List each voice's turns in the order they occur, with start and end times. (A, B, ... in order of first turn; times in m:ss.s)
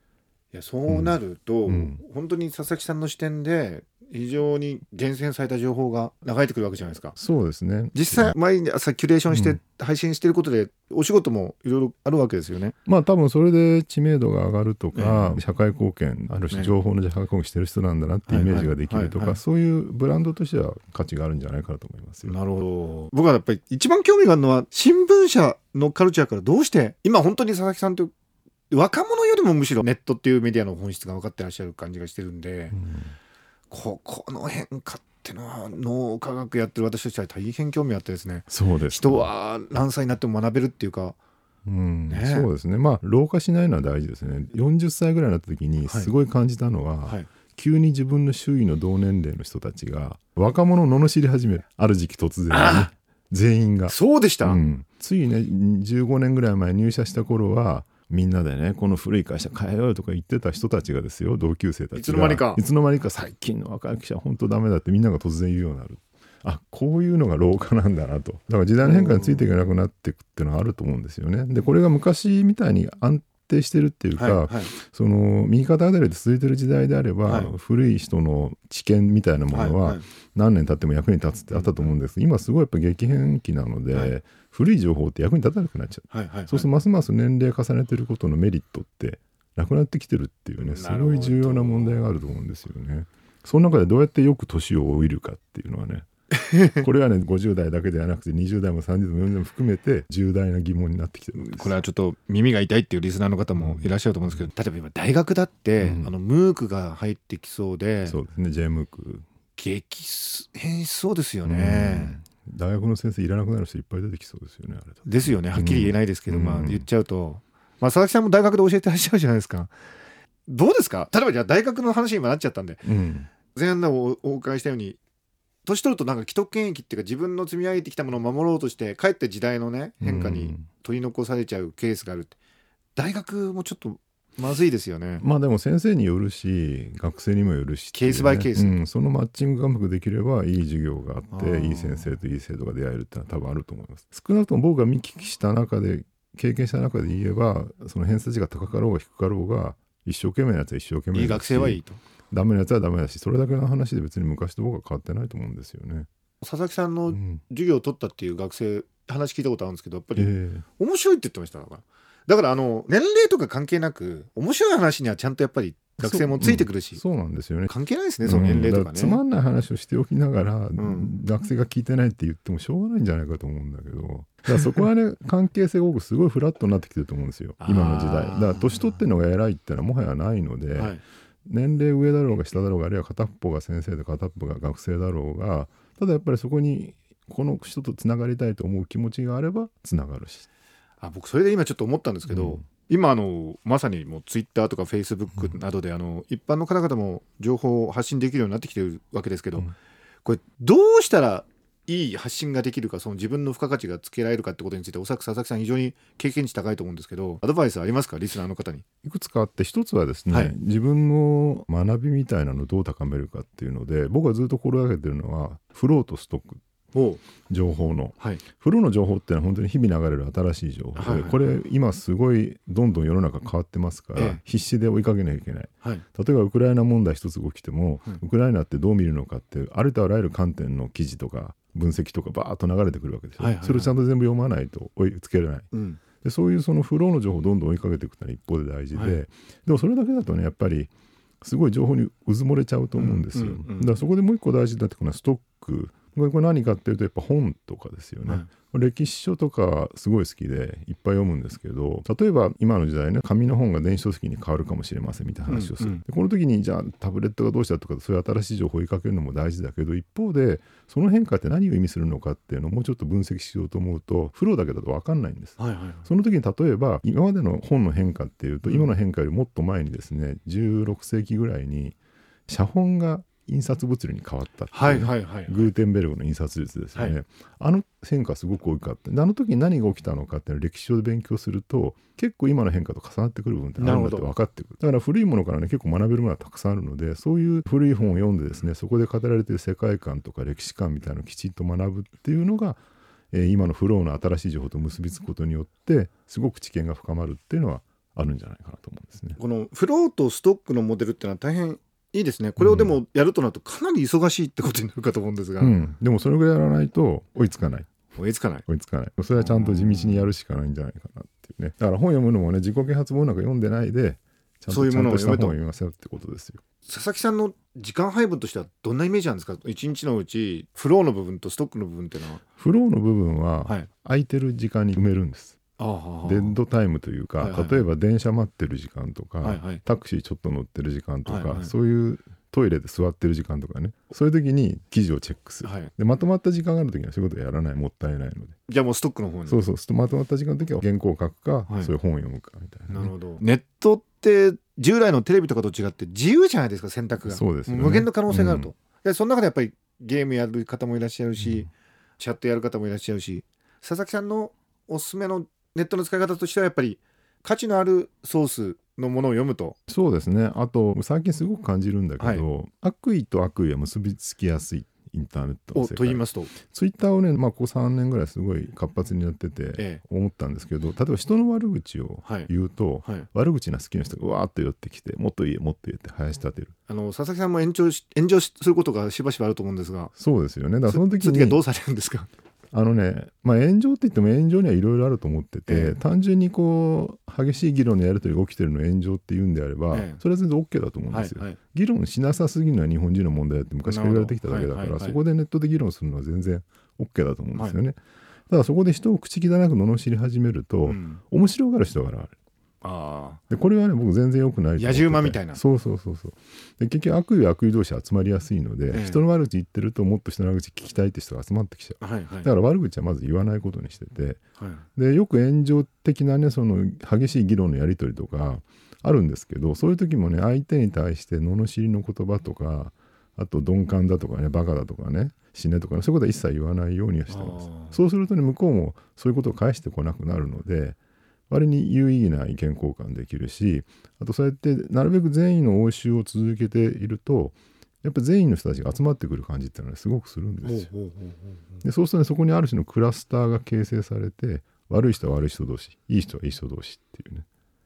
0:00.5-0:07.2 A
0:00.9-0:02.0 B
0:07.2-0:08.3 B
0:07.9-0:12.8 A
0:09.3-0:09.6 B
0:12.9-0:22.4 B
0:14.9-0:15.4 A
0:18.3-0:19.4 A
0:22.2-0:28.1 A
0:28.7-0:32.8 A
0:32.7-0:33.2 B
0:33.7-0:41.2 A
0:38.5-0:39.3 B
0:41.7-1:36.1 B
0:42.1-0:42.5 A
0:45.9-0:46.1 A
0:52.5-0:52.9 A
0:53.9-0:54.6 A
1:01.9-1:02.6 A
1:08.8-1:09.5 A
1:14.2-1:14.7 A
1:17.2-1:17.5 A
1:19.5-1:20.1 A
1:21.5-1:21.9 A
1:26.1-1:26.7 A
1:30.6-1:32.0 A
1:36.3-1:36.8 A
1:36.7-1:41.8 B
1:41.4-1:48.2 A
1:43.6-1:44.5 B
1:45.8-1:46.1 B
1:48.0-1:49.2 B
1:49.6-1:52.2 A
1:51.4-1:56.8 B
1:55.0-1:59.7 A
2:00.5-2:02.8 A
2:02.8-2:03.3 B
2:03.5-2:05.0 A
2:05.6-2:12.4 A
2:10.0-2:10.7 B
2:13.0-2:15.2 A
2:15.2-2:36.1 B
2:17.9-2:18.8 A
2:21.3-2:22.1 A
2:31.1-2:32.0 A
2:36.4-2:47.0 A
2:37.1-2:37.4 B
2:40.2-2:40.6 B
2:46.0-2:47.7 B
2:47.7-2:49.2 A
2:48.2-3:10.5 B
2:50.8-2:51.1 A
2:57.6-2:59.0 A
3:00.7-3:01.0 A
3:11.0-3:19.7 A
3:12.3-3:12.6 B
3:20.2-3:28.8 A
3:29.0-3:36.6 B
3:30.3-3:30.6 A
3:36.9-3:37.2 A
3:37.5-3:55.7 B
3:38.2-3:38.4 A
3:41.0-3:41.4 A
3:44.2-3:44.4 A
3:53.4-3:53.9 A
3:55.7-3:56.0 A
3:56.2-4:00.9 B
4:01.4-4:32.0 B
4:03.0-4:03.9 A
4:15.5-4:16.0 A
4:25.6-4:26.1 A
4:28.6-4:28.9 A
4:32.5-4:59.4 B
4:34.7-4:35.7 A
4:43.8-4:44.3 A
4:59.4-5:05.8 A
5:02.6-5:03.0 B
5:05.6-5:08.0 B
5:08.2-5:08.7 A
5:08.7-5:16.6 B
5:09.4-5:10.3 A
5:14.7-5:15.6 A
5:16.8-5:22.4 A
5:22.6-5:25.6 B
5:25.8-5:26.6 A
5:26.2-5:38.6 B
5:27.4-5:27.9 A
5:29.4-5:29.8 A
5:31.2-5:31.7 A
5:35.6-5:35.9 A
5:38.7-5:39.7 A
5:39.5-5:43.1 B
5:41.7-5:41.9 A
5:42.9-5:59.8 A
5:47.2-5:48.7 B
5:51.4-5:51.6 B
5:59.9-6:16.7 B
6:02.2-6:02.4 A
6:05.7-6:06.5 A
6:09.8-6:10.0 A
6:12.2-6:12.5 A
6:16.9-6:20.1 A
6:20.2-6:21.6 B
6:20.9-6:22.3 A
6:22.7-6:38.0 B
6:25.7-6:26.0 A
6:29.9-6:30.2 A
6:31.1-6:31.6 A
6:33.9-6:35.2 A
6:37.5-6:37.8 A
6:38.5-6:42.4 B
6:40.8-6:41.2 A
6:42.8-6:43.4 A
6:43.5-6:54.4 B
6:44.8-6:45.6 A
6:48.9-6:49.2 A
6:52.0-6:52.5 A
6:54.6-6:54.8 A
6:55.0-7:11.0 B
7:07.3-7:08.0 A
7:11.5-7:20.9 B
7:20.6-7:21.8 A
7:21.8-7:27.5 B